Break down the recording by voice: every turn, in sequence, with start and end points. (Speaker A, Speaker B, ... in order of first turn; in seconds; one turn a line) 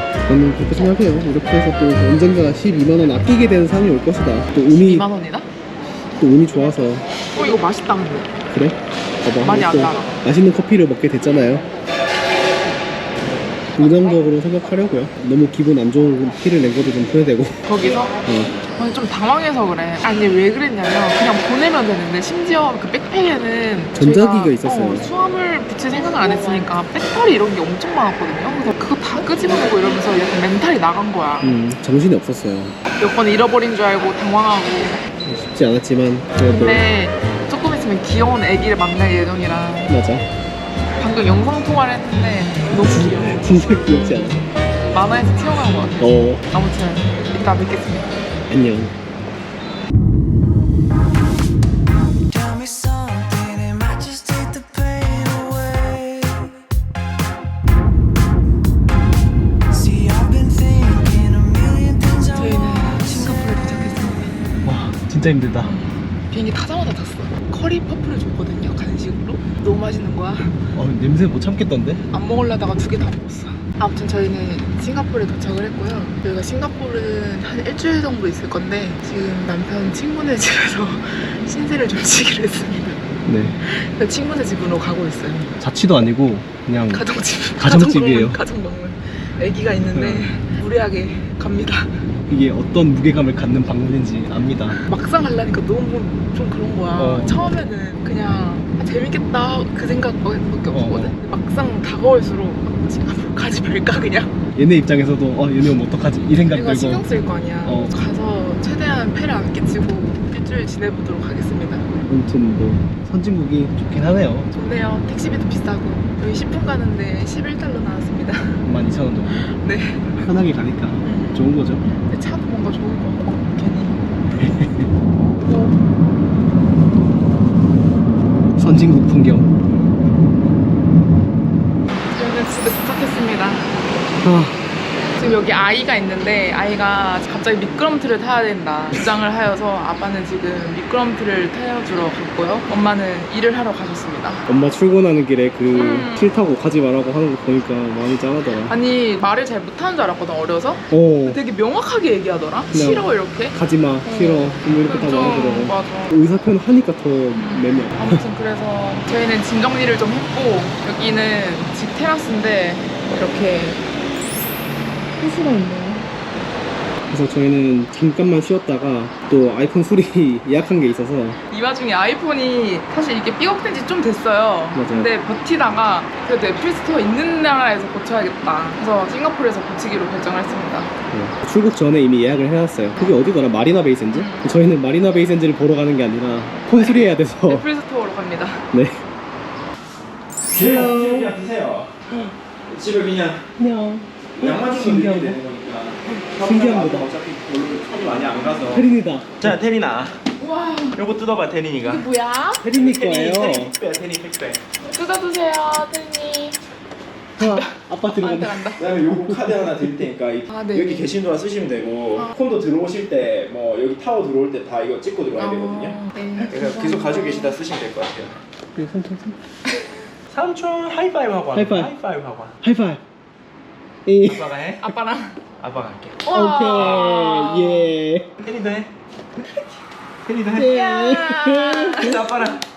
Speaker A: 0.2-5.1
Speaker B: 4.7-5.5
Speaker A: 6.2-7.0
Speaker B: 6.7-8.3
Speaker A: 8.5-11.7
Speaker B: 9.4-10.1
Speaker A: 13.8-17.6
Speaker B: 13.8-14.3
Speaker B: 17.6-18.2
Speaker A: 18.2-18.5
Speaker B: 18.7-31.6
Speaker A: 23.9-25.1
Speaker A: 31.4-32.8
Speaker B: 33.0-35.0
Speaker A: 35.2-36.9
Speaker B: 36.4-39.9
Speaker A: 39.9-40.3
Speaker B: 41.0-43.8
Speaker A: 42.7-44.4
Speaker B: 44.9-48.1
Speaker A: 46.0-46.4
Speaker A: 48.5-48.9
Speaker C: 52.3-56.5
Speaker C: 59.7-62.2
Speaker B: 62.3-64.4
Speaker A: 64.6-65.7
Speaker B: 65.6-70.7
Speaker A: 70.7-72.0
Speaker B: 72.1-83.0
Speaker A: 83.2-83.5
Speaker B: 83.6-85.5
Speaker A: 85.6-87.0
Speaker B: 86.9-91.9
Speaker A: 87.6-88.4
Speaker A: 89.9-90.3
Speaker A: 92.3-94.8
Speaker B: 94.7-104.3
Speaker A: 97.0-97.4
Speaker A: 100.7-101.2
Speaker A: 104.5-107.0
Speaker B: 106.4-111.9
Speaker A: 107.6-108.0
Speaker A: 112.1-114.5
Speaker B: 114.5-118.7
Speaker A: 118.6-119.5
Speaker B: 119.3-120.3
Speaker A: 120.2-121.8
Speaker B: 121.0-124.1
Speaker A: 124.4-124.9
Speaker B: 125.2-125.8
Speaker A: 128.6-129.5
Speaker B: 132.1-133.7
Speaker A: 134.2-134.6
Speaker B: 135.2-144.4
Speaker A: 144.5-148.8
Speaker B: 145.7-146.2
Speaker B: 148.7-156.2
Speaker A: 150.9-151.4
Speaker A: 152.7-158.2
Speaker B: 157.3-163.8
Speaker B: 165.2-166.1
Speaker A: 167.1-171.4
Speaker B: 171.5-180.9
Speaker A: 174.7-175.1
Speaker A: 181.1-187.7
Speaker B: 184.1-184.6
Speaker B: 186.7-188.7
Speaker A: 188.7-189.0
Speaker D: 190.5-191.9
Speaker A: 190.5-191.4
Speaker D: 192.7-193.4
Speaker A: 193.6-195.4
Speaker D: 194.4-198.9
Speaker A: 196.4-197.1
Speaker A: 198.7-199.5
Speaker D: 199.4-200.2
Speaker B: 200.4-201.0
Speaker D: 200.9-202.1
Speaker B: 201.8-202.7
Speaker A: 202.6-203.7
Speaker D: 202.7-204.6
Speaker B: 204.8-206.6
Speaker A: 207.4-209.8
Speaker B: 207.4-208.8
Speaker D: 208.8-218.4
Speaker B: 210.5-211.1
Speaker B: 215.4-217.6
Speaker A: 218.7-219.4
Speaker D: 220.3-222.6
Speaker A: 221.5-221.9
Speaker A: 222.6-223.0
Speaker A: 224.1-224.5
Speaker D: 224.2-224.9
Speaker B: 224.8-225.4
Speaker D: 225.6-227.1
Speaker B: 226.2-227.9
Speaker A: 226.3-228.3
Speaker D: 228.4-228.9
Speaker D: 230.2-230.8
Speaker A: 230.5-232.3
Speaker B: 230.6-232.4
Speaker D: 232.0-232.6